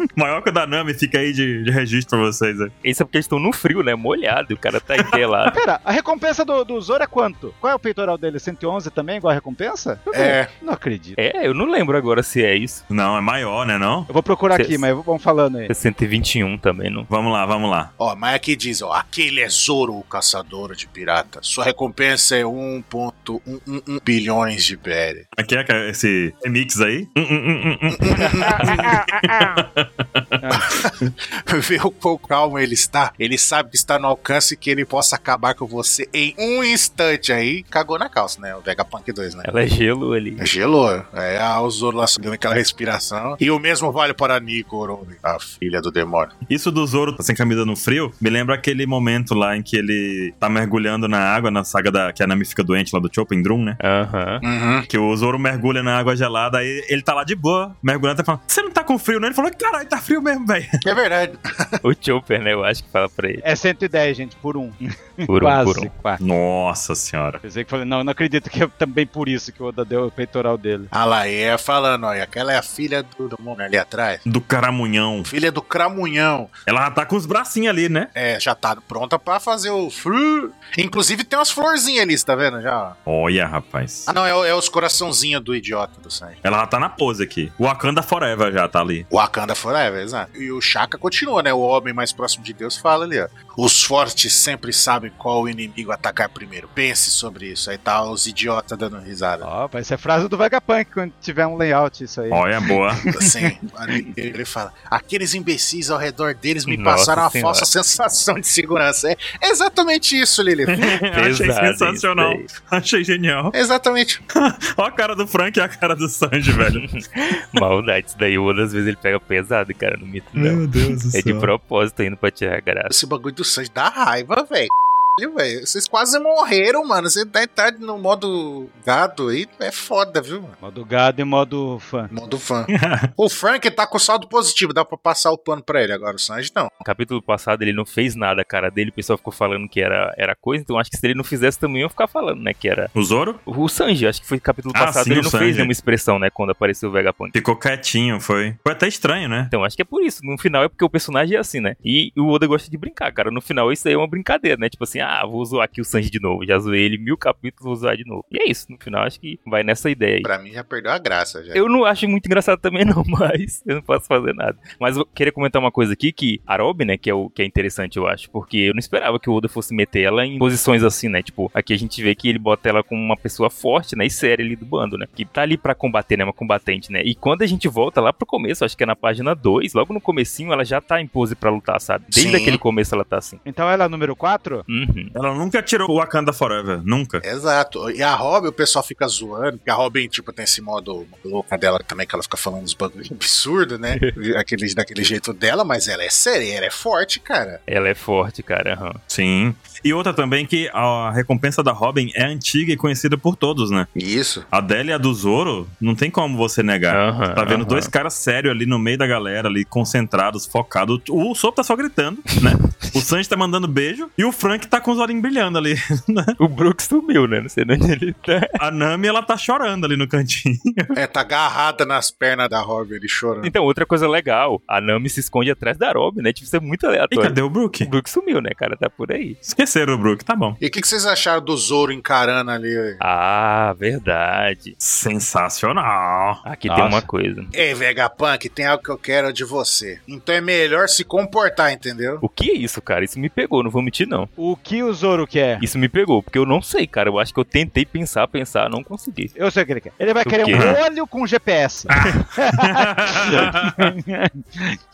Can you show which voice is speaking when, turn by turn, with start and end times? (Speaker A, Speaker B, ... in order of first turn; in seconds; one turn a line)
Speaker A: 0.1-2.7
Speaker B: 2.8-5.5
Speaker C: 5.5-11.2
Speaker D: 10.1-10.5
Speaker B: 11.2-12.8
Speaker A: 12.9-14.1
Speaker C: 14.1-15.7
Speaker B: 14.5-14.8
Speaker B: 15.7-17.1
Speaker A: 17.1-17.9
Speaker D: 18.0-25.3
Speaker A: 25.4-30.4
Speaker D: 27.9-29.0
Speaker C: 28.1-29.5
Speaker C: 30.4-30.7
Speaker D: 30.6-39.5
Speaker B: 39.4-40.5
Speaker D: 40.4-46.3
Speaker A: 46.5-53.8
Speaker B: 53.8-54.4
Speaker D: 54.4-54.9
Speaker A: 54.9-60.8
Speaker D: 60.8-61.8
Speaker B: 61.8-63.4
Speaker C: 63.4-66.2
Speaker B: 65.3-65.9
Speaker A: 66.2-67.4
Speaker C: 67.4-70.9
Speaker D: 70.9-74.2
Speaker A: 74.2-75.3
Speaker D: 75.2-76.5
Speaker A: 76.7-78.1
Speaker D: 78.1-83.0
Speaker A: 83.1-84.1
Speaker D: 84.1-86.4
Speaker A: 86.4-89.1
Speaker D: 89.1-99.5
Speaker C: 99.4-103.5
Speaker A: 102.3-103.1
Speaker D: 103.1-111.0
Speaker B: 106.7-107.7
Speaker A: 110.7-113.5
Speaker B: 111.1-112.5
Speaker D: 113.5-114.2
Speaker A: 114.3-116.8
Speaker B: 116.7-122.9
Speaker A: 120.3-121.5
Speaker D: 122.9-130.6
Speaker C: 130.6-132.1
Speaker D: 132.1-136.7
Speaker A: 132.7-133.1
Speaker B: 136.8-142.9
Speaker A: 142.9-143.4
Speaker B: 143.5-147.3
Speaker A: 144.7-145.7
Speaker A: 147.3-149.5
Speaker B: 149.5-160.3
Speaker D: 160.2-161.6
Speaker B: 161.5-183.4
Speaker D: 182.1-182.6
Speaker C: 183.4-184.6
Speaker B: 184.7-185.1
Speaker A: 185.1-187.2
Speaker D: 187.2-197.6
Speaker B: 197.7-199.0
Speaker A: 199.1-203.9
Speaker D: 203.9-204.5
Speaker A: 204.5-216.3
Speaker B: 206.9-207.9
Speaker B: 212.6-213.0
Speaker B: 216.4-218.6
Speaker A: 218.6-220.9
Speaker D: 220.9-223.5
Speaker B: 223.4-229.4
Speaker A: 227.1-227.9
Speaker A: 229.4-230.6
Speaker D: 230.6-233.0
Speaker B: 233.0-234.8
Speaker A: 234.8-236.4
Speaker B: 236.4-237.5
Speaker C: 236.7-237.1
Speaker D: 237.5-242.2
Speaker B: 242.2-244.3
Speaker C: 244.4-245.6
Speaker B: 245.6-249.3
Speaker C: 249.3-254.8
Speaker B: 250.2-250.7
Speaker A: 250.5-250.8
Speaker A: 251.9-253.9